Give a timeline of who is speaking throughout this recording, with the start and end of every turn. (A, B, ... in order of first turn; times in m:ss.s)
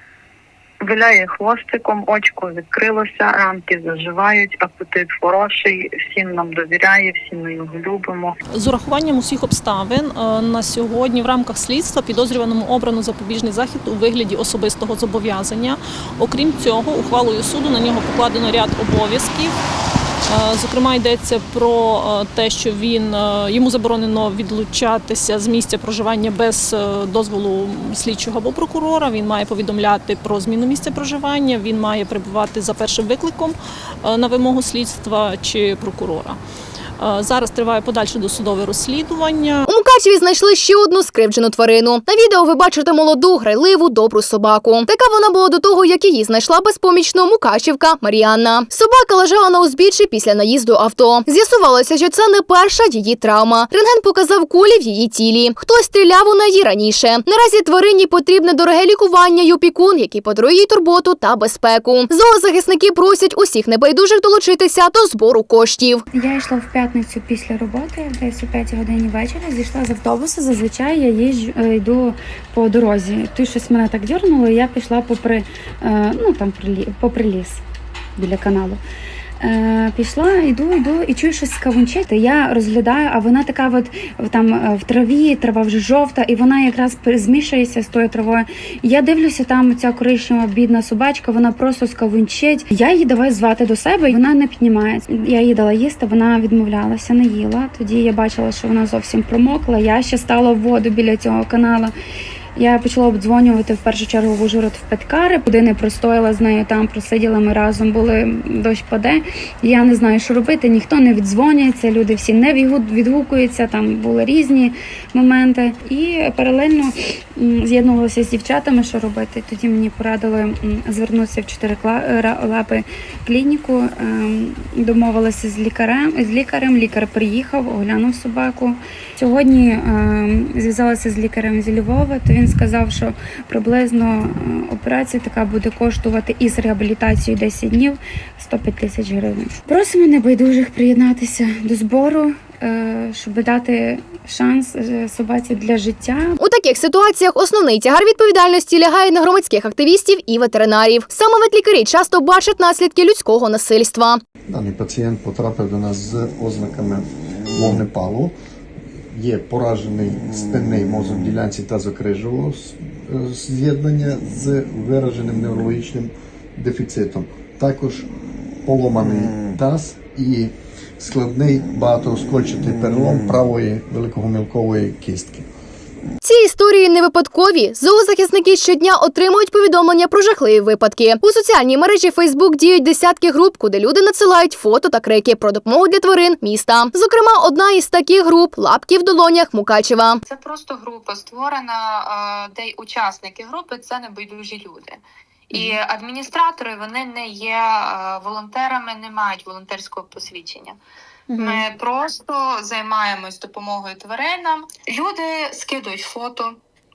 0:00.8-0:08.3 A
0:08.5-0:19.5 B
0:20.3-0:36.4 B
0:37.0-0:39.6 B
0:39.6-1:06.0 C
1:06.1-1:17.6 D
1:18.2-1:18.8 D
1:19.4-1:41.9 D
1:42.6-2:26.4 D
2:26.4-2:34.2 C
2:34.5-2:38.3 E
2:39.1-2:48.1 E
2:48.6-2:55.5 E
2:56.2-3:10.2 C
3:10.3-3:20.8 F
3:21.4-3:26.6 F